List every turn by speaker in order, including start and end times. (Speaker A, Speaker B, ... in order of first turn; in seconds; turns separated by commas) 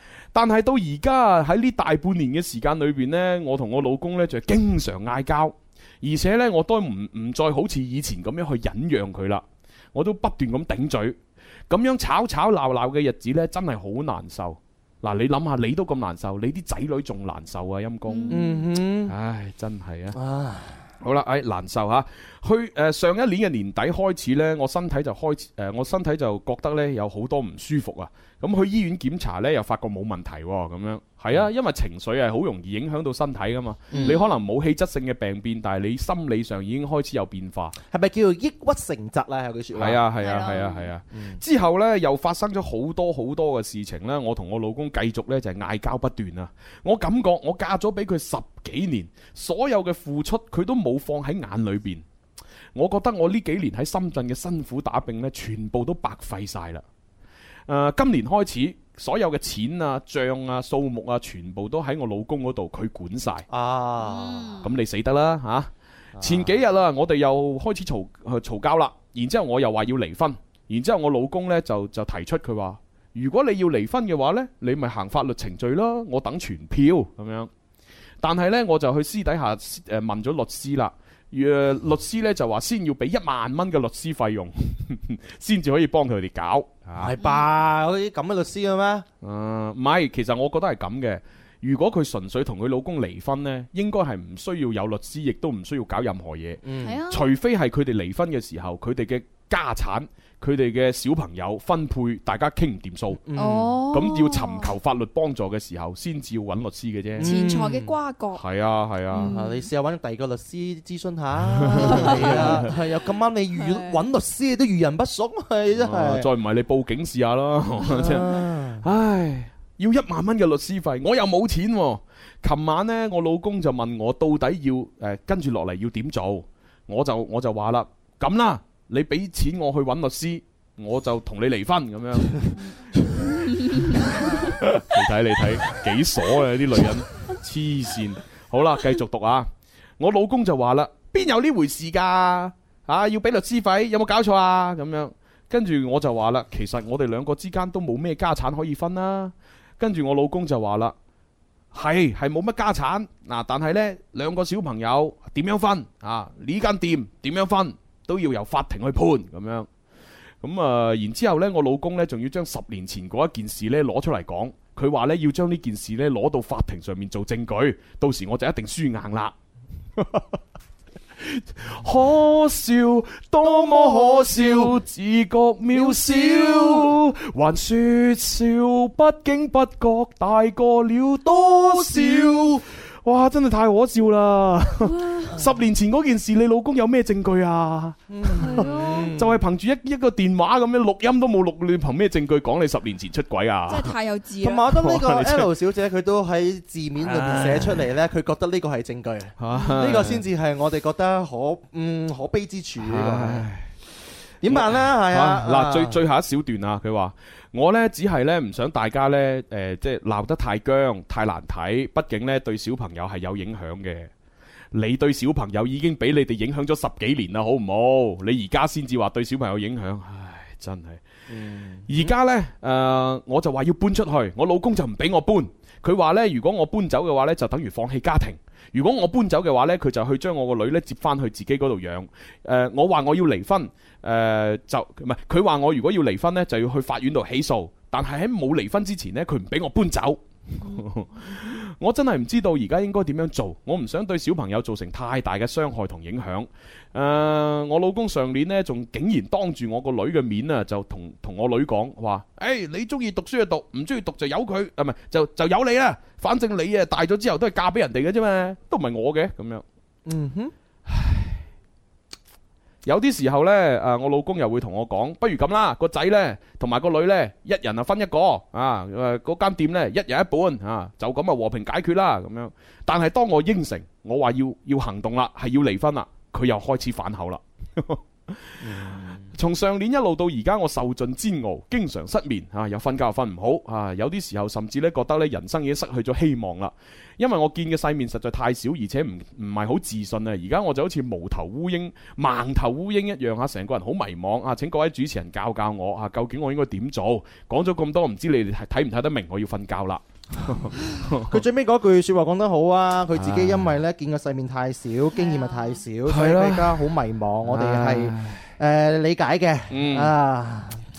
Speaker A: 0.3-11.2, Speaker A: 11.7-20.2, Speaker B: 18.1-18.7, Speaker C: 18.3-19.1, Speaker C: 20.1-20.8, Speaker A: 21.0-37.8, Speaker C: 33.9-34.2, Speaker B: 33.9-34.3, Speaker C: 37.9-40.0, Speaker A: 39.7-52.0, Speaker B: 40.2-40.9, Speaker C: 41.1-41.4, Speaker A: 52.8-56.8, Speaker A: 57.7-63.5, Speaker C: 63.5-64.6, Speaker B: 64.0-64.7, Speaker A: 64.6-77.5, Speaker C: 66.2-66.6, Speaker A: 78.2-87.1, Speaker C: 87.0-89.1, Speaker A: 89.2-103.2, Speaker C: 96.6-97.0, Speaker B: 96.8-97.3, Speaker C: 103.2-103.8, Speaker B: 103.4-104.7, Speaker A: 103.9-107.3, Speaker C: 107.2-108.0, Speaker B: 107.2-108.4, Speaker A: 108.3-109.3, Speaker B: 109.1-109.7, Speaker C: 109.2-116.3, Speaker A: 111.5-112.7, Speaker B: 111.7-112.8, Speaker B: 113.5-114.0, Speaker A: 115.7-132.7, Speaker C: 117.9-118.8, Speaker B: 118.0-118.3, Speaker B: 132.6-134.6, Speaker A: 133.9-151.0, Speaker A: 151.7-159.7, Speaker A: 160.4-169.3, Speaker A: 170.0-170.3, Speaker A: 171.2-193.9, Speaker C: 173.5-174.8, Speaker C: 175.7-176.9, Speaker C: 181.4-182.6, Speaker B: 185.0-185.3, Speaker C: 188.1-189.4, Speaker B: 188.3-189.1, Speaker B: 193.7-194.7, Speaker C: 194.4-203.5, Speaker A: 194.7-195.5, Speaker A: 197.0-197.9, Speaker A: 199.4-200.2, Speaker A: 202.8-203.7, Speaker C: 204.4-206.0, Speaker A: 204.5-214.1, Speaker A: 214.7-221.0, Speaker C: 221.3-222.1, Speaker A: 221.9-259.6, Speaker B: 240.6-241.6, Speaker C: 260.1-260.5, Speaker A: 260.9-261.4, Speaker A: 262.8-301.4, Speaker C: 278.6-279.3, Speaker C: 301.3-310.9, Speaker A: 303.1-303.8, Speaker B: 305.1-305.8, Speaker A: 306.1-306.9, Speaker A: 307.4-308.5, Speaker A: 309.7-310.1